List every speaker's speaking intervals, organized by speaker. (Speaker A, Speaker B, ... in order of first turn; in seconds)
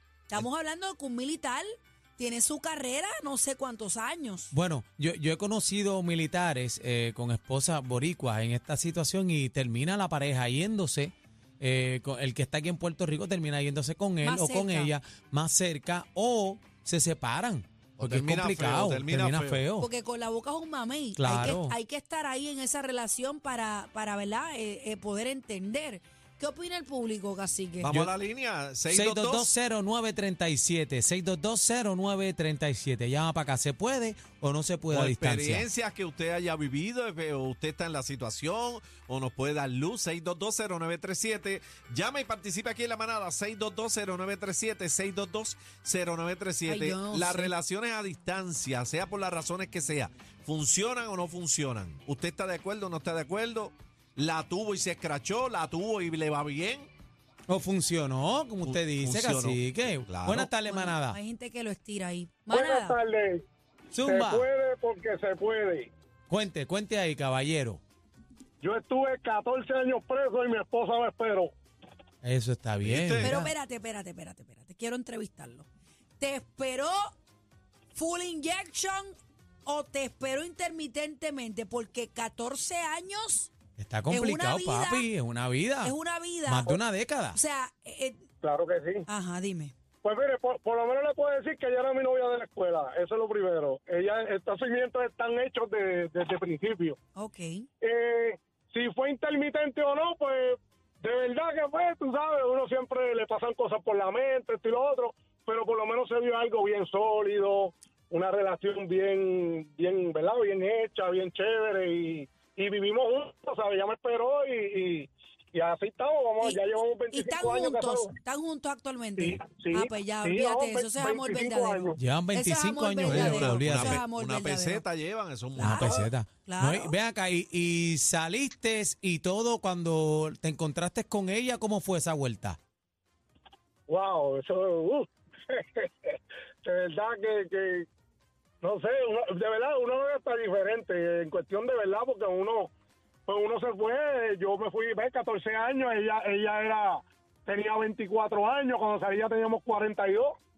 Speaker A: 0.3-4.5, 14.2-14.9, 19.8-27.9, 46.7-47.5, 60.6-63.0, 73.2-75.7, 76.2-77.2, 77.9-79.1, 79.7-83.5, 84.1-85.1, 85.8-86.8, 87.3-88.3, 89.1-89.8, 97.2-97.7, 116.4-124.8, 125.6-125.9, 126.5-127.0
Speaker B: 4.5-19.9, 21.2-21.8, 27.8-28.1, 28.9-35.7, 57.5-61.2, 63.9-64.5, 66.3-67.8, 72.2-73.5, 83.8-86.0, 86.5-87.4, 122.0-124.0, 125.6-132.6
Speaker C: 18.0-19.6, 27.8-29.5, 34.9-56.9, 58.6-60.5, 72.8-73.4, 123.0-126.0
Speaker D: 62.5-63.5, 64.0-65.9, 68.6-71.5, 88.4-89.0, 90.0-97.0, 97.8-118.1, 119.2-122.0, 125.8-126.1, 133.9-137.9, 138.6-142.7, 143.3-150.4